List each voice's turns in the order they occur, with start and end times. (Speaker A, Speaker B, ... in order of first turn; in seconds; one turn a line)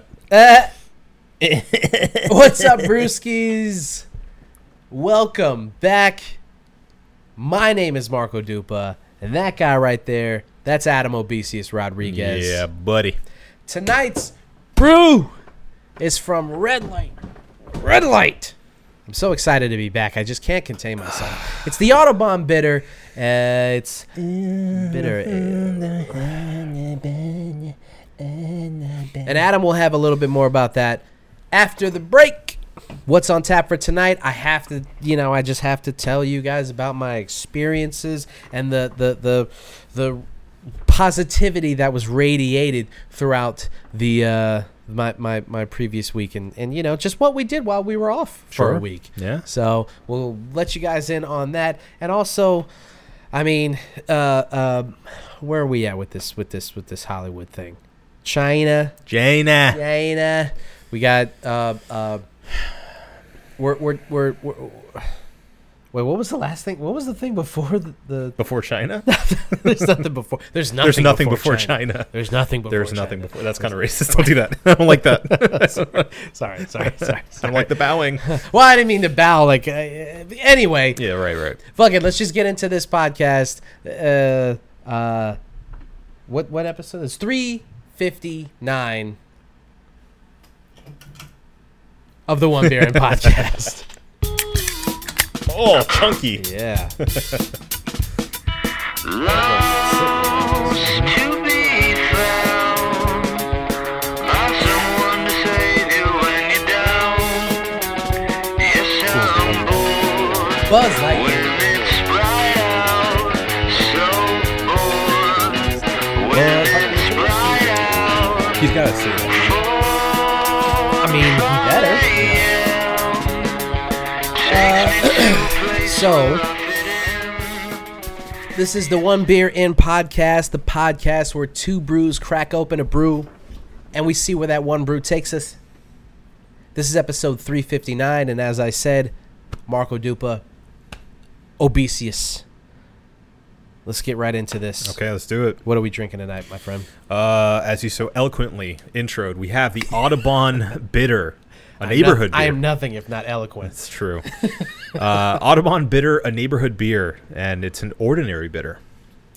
Speaker A: 0.3-0.7
Speaker B: 1.4-3.0
Speaker A: 2.2-4.0
Speaker A: 4.9-6.4
Speaker A: 7.4-12.6
Speaker B: 12.0-13.2
Speaker A: 13.7-15.3
Speaker A: 16.0-17.2
Speaker A: 17.7-18.5
Speaker A: 19.1-24.1
Speaker B: 24.2-29.4
Speaker A: 24.7-26.3
Speaker A: 29.2-40.2
Speaker A: 40.9-52.7
Speaker B: 48.5-49.4
Speaker A: 53.3-59.0
Speaker B: 59.1-59.8
Speaker A: 59.7-62.2
Speaker A: 63.6-65.1
Speaker A: 65.9-68.4
Speaker B: 68.4-69.1
Speaker A: 69.0-74.3
Speaker B: 70.8-72.1
Speaker B: 72.7-76.1
Speaker A: 74.9-81.1
Speaker B: 76.8-78.3
Speaker B: 81.0-81.6
Speaker A: 81.6-85.4
Speaker A: 86.3-89.2
Speaker A: 92.3-93.9
Speaker B: 95.5-96.4
Speaker A: 96.3-97.0
Speaker B: 97.0-97.4
Speaker C: 99.0-103.5
Speaker A: 99.2-101.1
Speaker B: 100.9-101.1
Speaker C: 104.2-107.7
Speaker C: 108.6-118.7
Speaker A: 110.7-111.5
Speaker A: 116.3-118.6
Speaker B: 118.6-119.5
Speaker C: 119.3-123.6
Speaker A: 121.0-122.5
Speaker C: 124.3-127.8
Speaker A: 124.4-126.4
Speaker A: 128.5-133.3
Speaker A: 133.9-135.6
Speaker A: 136.7-139.1
Speaker A: 139.7-140.4
Speaker A: 141.6-142.4
Speaker A: 143.8-145.0
Speaker B: 144.8-145.6
Speaker A: 145.6-146.9
Speaker B: 147.1-152.6
Speaker A: 151.8-153.8
Speaker B: 153.7-154.2
Speaker B: 154.9-158.8